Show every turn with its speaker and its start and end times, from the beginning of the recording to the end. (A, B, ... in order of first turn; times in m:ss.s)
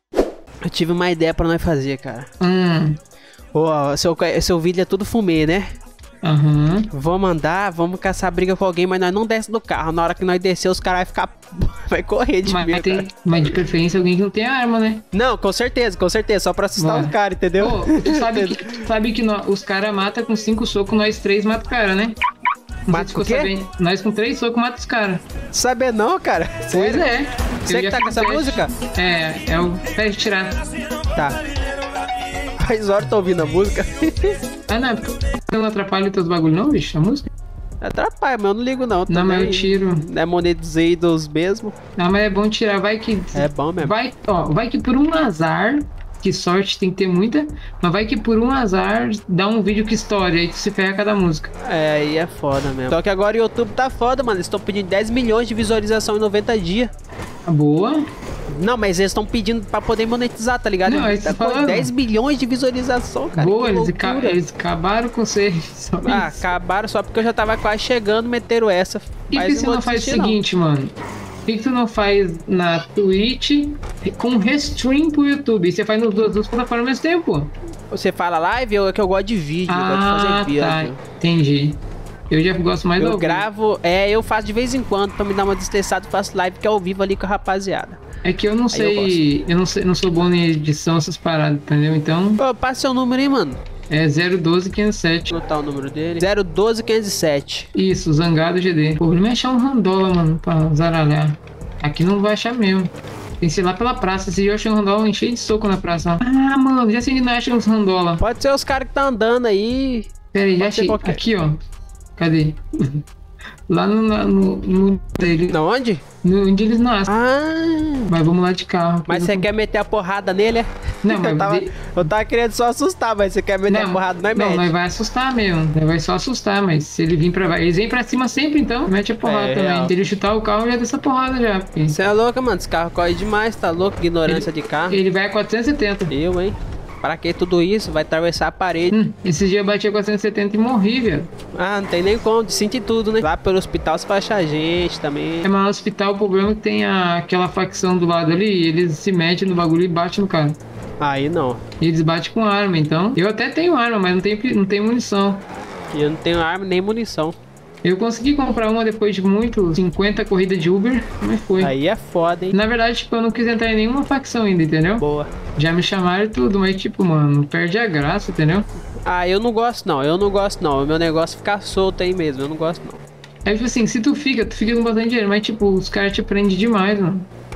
0:00.6-0:02.3 A
0:02.4-0:03.0 B
0:03.5-0:05.6 A
0:06.2-0:06.9 B
0:06.9-0:13.0 A
0:12.5-0:15.0 B
0:15.1-0:18.6 A
0:16.8-0:22.2 B
0:22.9-0:25.2 B
0:22.9-0:23.5 A
0:25.5-0:27.1 A
0:26.7-0:30.6 B
0:27.7-0:28.7 A
0:31.1-0:31.4 A
0:32.6-0:34.3 A
0:34.7-0:37.3 B
0:37.8-0:41.8 A
0:39.1-0:40.0 B
0:42.0-0:51.5 B
0:43.3-0:43.9 A
0:51.6-0:56.9 A
0:57.4-0:58.0 B
0:58.5-1:04.4 A
1:00.8-1:01.9 B
1:03.3-1:06.4 B
1:06.0-1:10.4 A
1:09.3-1:10.9 B
1:11.4-1:17.5 B
1:17.9-1:21.0 A
1:19.7-1:23.4 B
1:23.0-1:28.0 A
1:28.2-1:32.4 B
1:28.7-1:29.2 A
1:32.4-1:33.6 A
1:33.9-1:35.4 B
1:35.3-1:37.7 A
1:37.7-1:48.2 B
1:48.2-1:51.2 A
1:50.3-1:51.6 B
1:52.2-1:53.0 B
1:53.7-1:55.6 B
1:55.5-1:56.0 A
1:56.2-1:57.1 B
1:57.1-1:58.1 A
1:58.1-1:59.4 B
1:59.1-2:04.7 A
2:01.0-2:02.0 B
2:03.7-2:12.0 B
2:09.2-2:10.1 A
2:11.9-2:15.0 A
2:14.2-2:16.1 B
2:16.1-2:19.0 A
2:18.9-2:21.3 B
2:21.5-2:25.5 A
2:25.4-2:30.6 B
2:31.0-2:31.6 A
2:31.8-2:35.4 B
2:35.9-2:37.4 A
2:37.8-2:41.7 B
2:41.6-2:42.6 A
2:42.5-2:45.0 B
2:45.0-2:45.3 A
2:45.6-2:48.7 B
2:49.0-2:53.0 A
2:53.4-2:57.3 B